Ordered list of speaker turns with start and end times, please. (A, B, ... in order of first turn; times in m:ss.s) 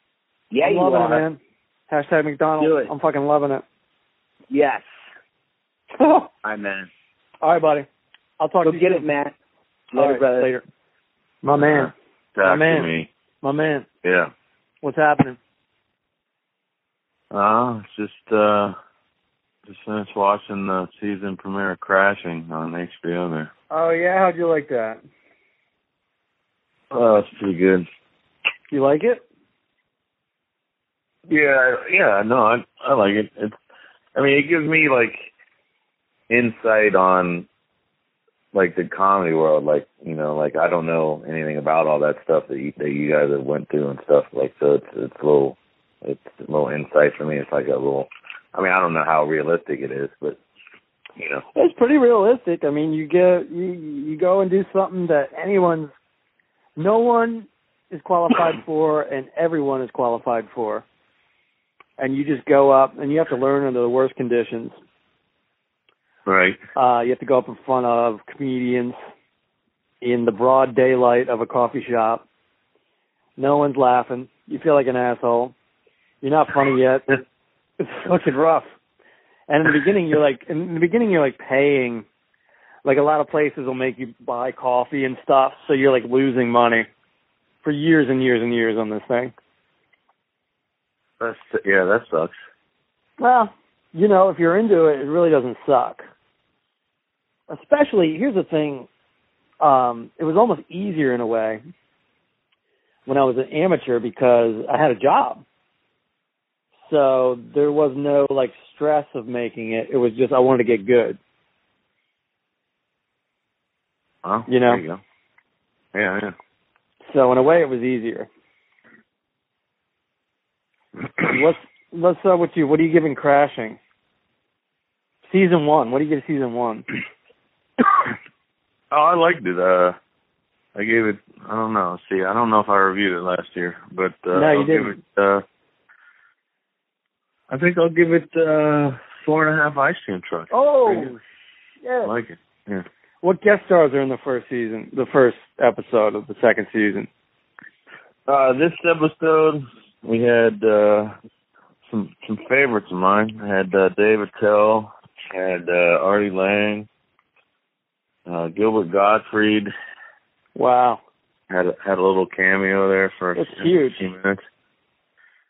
0:00.5-0:01.2 A
0:00.6-0:03.6 B
0:02.6-0:02.9 A
0:04.5-0:04.9 A
0:06.0-0:06.3 B
0:06.4-0:06.9 A
0:07.4-0:07.9 B
0:08.4-0:09.1 B
0:08.6-0:09.4 A
0:09.9-0:10.5 A
0:10.0-0:10.6 B
0:11.4-0:11.9 B
0:11.6-0:13.1 C
0:12.4-0:13.9 B
0:14.0-0:14.3 C
0:14.8-0:15.4 B
0:17.3-0:18.8 C
0:19.6-0:23.5 C
0:23.7-0:25.0 B
0:26.9-0:27.9 C
0:28.7-0:29.2 B
0:31.3-0:33.6 C
0:34.2-0:35.3 C
0:36.3-0:37.5 C
0:38.5-0:50.4 C
0:51.2-0:51.4 C
0:51.5-0:55.9 B
0:56.8-1:00.8 B
1:02.0-1:04.8 B
1:06.3-1:06.6 C
1:06.8-1:09.0 B
1:10.0-1:12.2 B
1:13.4-1:15.5 B
1:16.2-1:17.1 B
1:17.8-1:18.7 B
1:19.5-1:22.0 B
1:22.8-1:26.9 B
1:27.6-1:29.3 B
1:31.2-1:32.4 C
1:33.2-1:36.0 B
1:37.5-1:38.9 B
1:39.6-1:41.6 B
1:43.1-1:45.4 B
1:46.8-1:51.2 B
1:54.2-1:55.0 C
1:54.5-1:54.8 B
1:55.9-1:56.4 C
1:57.1-1:58.3 B
2:01.3-2:03.8 B
2:05.2-2:06.8 B
2:08.9-2:10.0 C
2:10.8-2:15.4 C
2:14.3-2:15.0 B
2:17.5-2:21.2 C
2:20.5-2:21.2 B
2:21.8-2:22.1 B
2:22.0-2:22.8 C
2:23.2-2:27.1 B
2:28.3-2:31.1 C
2:31.9-2:36.9 C
2:38.3-2:39.7 C
2:40.6-2:41.0 B
2:41.5-2:44.4 C
2:43.4-2:44.0 B